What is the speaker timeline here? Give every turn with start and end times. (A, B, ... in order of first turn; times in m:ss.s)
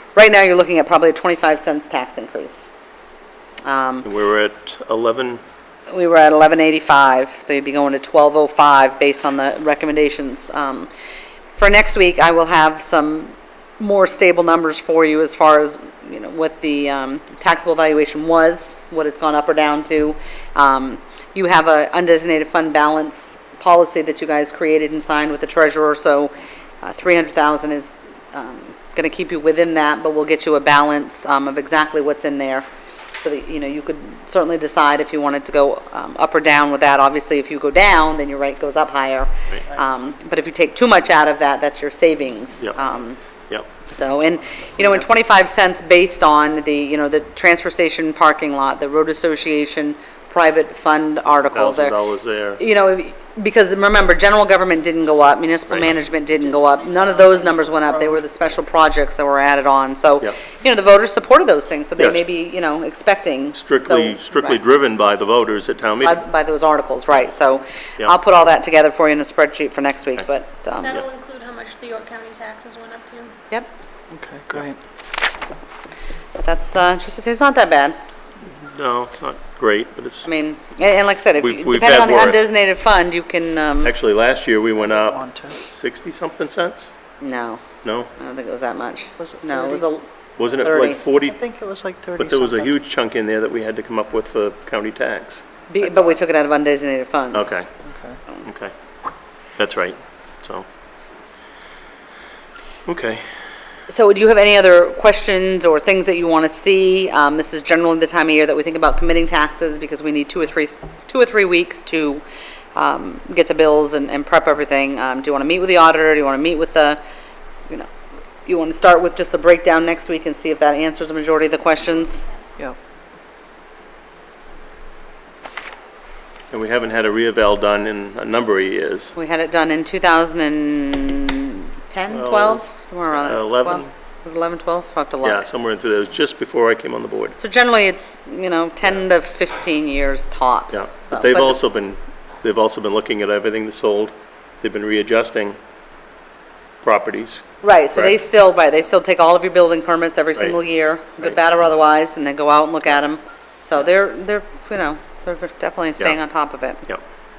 0:00.2-0:02.7 A
0:03.6-0:04.1 A
0:04.0-0:05.4 B
0:05.9-0:10.9 A
0:11.6-0:32.7 A
0:33.2-0:43.2 A
0:43.9-0:52.0 A
0:51.4-0:52.6 B
0:52.6-1:04.6 A
0:55.7-0:56.0 B
1:02.0-1:02.2 B
1:03.6-1:06.2 B
1:06.0-1:11.0 A
1:10.8-1:13.4 C
1:14.1-1:14.8 D
1:16.4-1:18.0 A
1:18.5-1:20.3 B
1:20.2-1:23.9 A
1:21.4-1:22.5 B
1:23.8-1:26.9 B
1:24.8-1:25.6 D
1:27.2-1:27.7 A
1:27.8-1:28.1 B
1:28.2-1:31.0 A
1:29.2-1:29.9 D
1:30.4-1:31.4 B
1:31.2-1:32.7 D
1:32.2-1:36.1 B
1:35.7-1:37.5 A
1:37.3-1:37.7 B
1:37.8-1:38.2 D
1:38.4-1:38.7 B
1:39.6-1:40.7 B
1:42.9-1:43.2 B
1:43.9-1:52.2 A
1:52.8-1:57.0 A
1:58.4-2:02.3 A
2:06.5-2:09.1 B
2:09.2-2:15.5 A
2:12.1-2:13.9 B
2:15.2-2:17.4 B
2:17.4-2:21.6 A
2:20.7-2:25.6 B
2:26.8-2:28.2 B
2:27.6-2:36.8 A